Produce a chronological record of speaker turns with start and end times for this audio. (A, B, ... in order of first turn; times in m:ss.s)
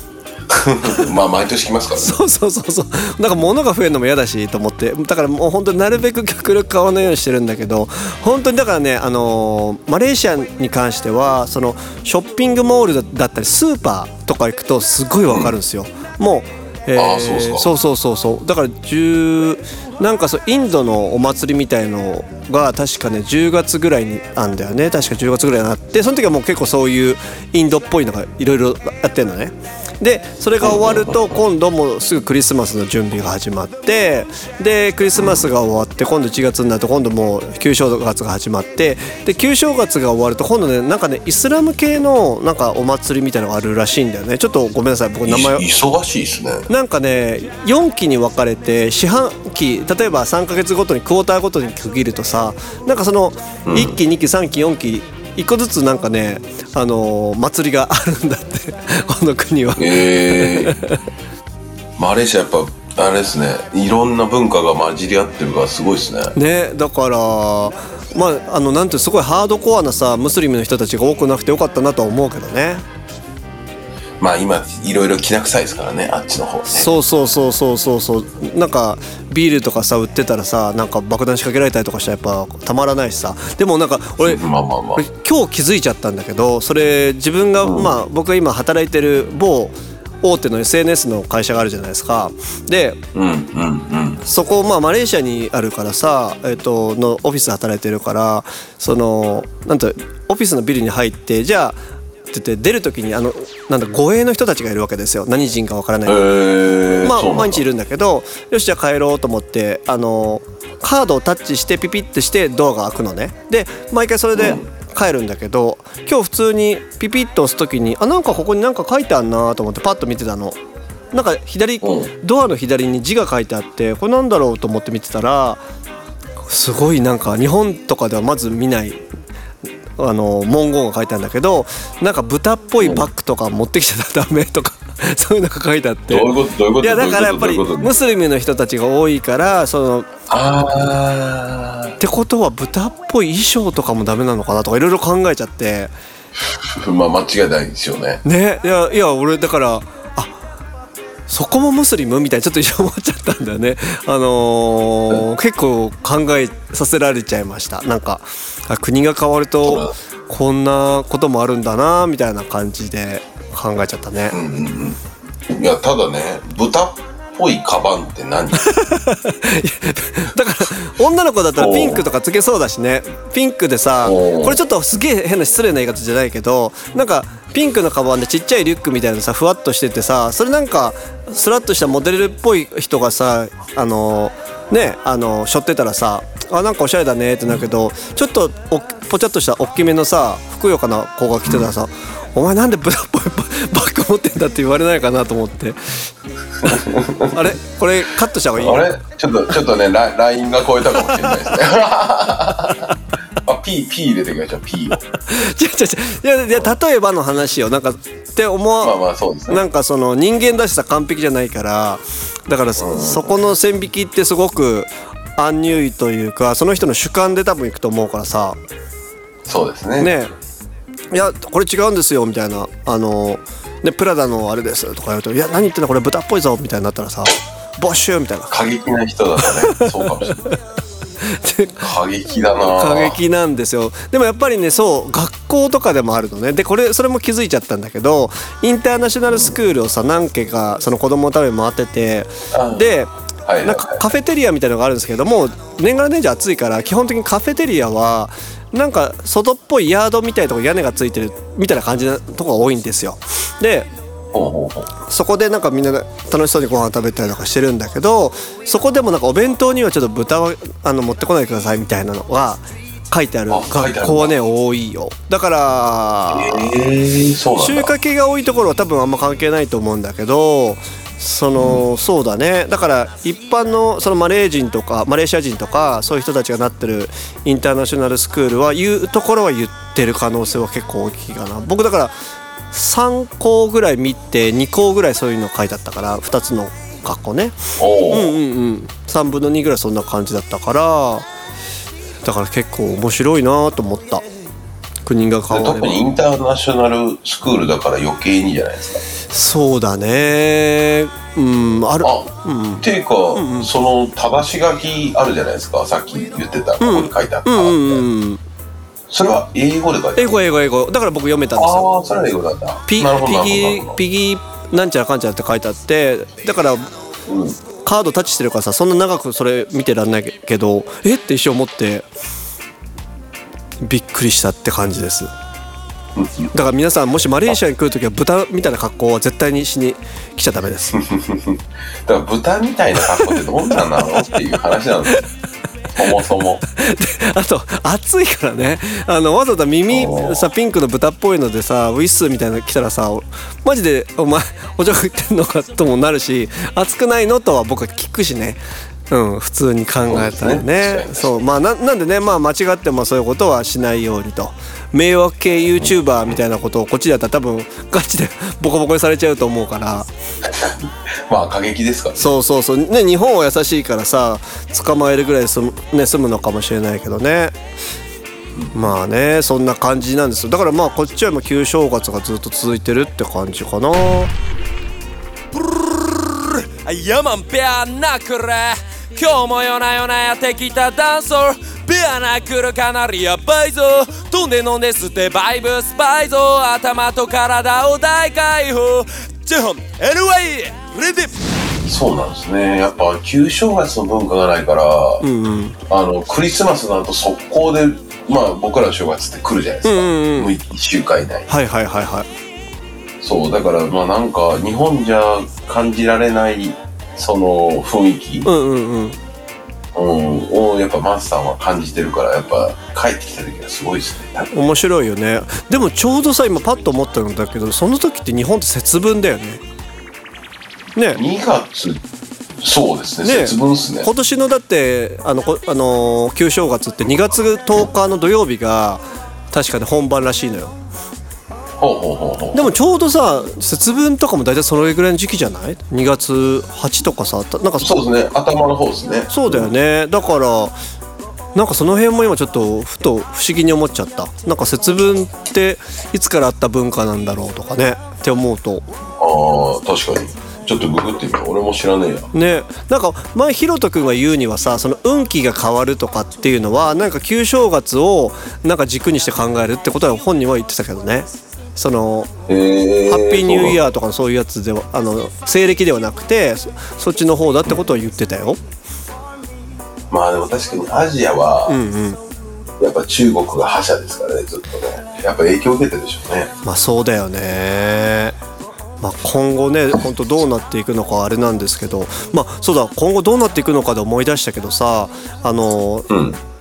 0:00.5-0:02.1 A
0:02.0-0:45.6 B
0:15.3-0:15.5 A
0:17.0-0:17.7 A
0:30.6-0:31.4 A
0:35.2-0:35.5 A
0:45.2-0:46.7 A
0:46.7-1:01.0 B
0:53.6-0:54.0 A
0:59.8-1:00.7 A
1:02.0-1:06.3 A
1:06.3-1:12.8 B
1:14.2-1:16.9 A
1:16.7-1:24.4 B
1:24.2-1:25.0 A
1:25.0-1:33.0 B
1:27.6-1:27.9 A
1:33.1-1:34.2 A
1:34.2-1:41.8 B
1:42.3-1:46.2 B
1:46.0-1:47.6 A
1:47.0-2:00.6 B
1:54.3-1:54.6 A
2:01.1-2:05.6 B
2:01.8-2:02.1 A
2:06.5-2:09.0 B
2:10.0-2:20.1 B
2:12.8-2:13.0 A
2:16.1-2:17.9 A
2:20.3-2:22.0 A
2:22.0-2:25.9 B
2:26.5-2:28.2 A
2:28.2-2:30.4 B
2:31.3-2:44.4 B
2:39.6-2:39.9 A
2:44.3-2:48.7 A
2:48.6-3:16.1 B
2:51.6-2:52.0 A
2:54.0-2:54.6 A
3:16.6-3:17.5 A
3:16.6-3:18.9 B
3:18.6-3:22.9 A
3:21.1-3:21.5 B
3:22.6-3:22.9 B
3:23.4-3:25.0 A
3:25.3-3:38.6 B
3:28.8-3:29.6 A
3:32.8-3:33.2 A
3:39.4-3:40.1 A
3:40.0-3:40.3 B
3:41.1-3:48.5 B
3:48.5-3:50.5 A
3:49.4-3:50.6 B
3:51.2-3:51.9 B
3:51.8-3:53.2 A
3:52.5-4:03.1 B
4:02.5-4:04.1 A
4:03.6-4:13.9 B
4:14.3-4:14.9 A
4:15.0-4:26.7 B
4:23.5-4:24.3 A
4:26.3-4:27.9 A
4:27.6-4:42.1 B
4:31.6-4:31.8 A
4:42.7-4:47.6 B
4:47.8-4:48.4 A
4:48.1-4:51.3 B
4:52.2-4:54.2 B
4:55.0-4:56.0 B
4:55.5-4:59.0 A
4:59.3-5:03.7 B
5:02.0-5:08.0 A
5:06.8-5:08.4 B
5:09.1-5:10.5 A
5:10.2-5:11.9 B
5:11.6-5:14.0 A
5:12.9-5:16.9 B
5:17.3-5:17.6 A
5:17.8-5:22.0 B
5:23.8-5:25.3 B
5:26.2-5:26.5 A
5:26.5-5:31.0 B
5:30.9-5:35.2 A
5:33.1-5:33.4 B
5:36.0-5:36.6 A
5:36.6-6:00.1 B
5:39.9-5:40.5 A
5:50.1-5:51.4 A
6:00.4-6:02.4 A
6:02.2-6:07.6 B
6:08.7-6:14.3 B
6:15.5-6:31.5 C
6:31.8-6:35.2 A
6:35.2-6:35.8 B
6:35.9-6:41.5 A
6:39.8-6:40.5 B
6:41.5-6:42.3 B
6:43.2-6:48.5 A
6:48.4-6:49.2 B
6:49.9-6:54.5 A
6:54.5-6:59.6 B
7:00.9-7:01.2 B
7:01.1-7:02.0 A
7:02.6-7:04.1 A
7:03.2-7:10.7 B
7:11.8-7:12.7 A
7:12.5-7:17.9 B
7:17.8-7:19.7 A
7:19.3-7:20.8 B
7:21.5-7:28.9 B
7:29.2-7:32.3 A
7:32.3-7:42.3 B
7:42.5-7:43.8 A
7:43.1-7:48.6 B
7:50.1-7:51.8 A
7:51.7-7:52.2 B
7:52.8-7:56.5 A
7:56.6-7:58.4 B
7:59.0-8:06.1 B
8:06.1-8:06.4 A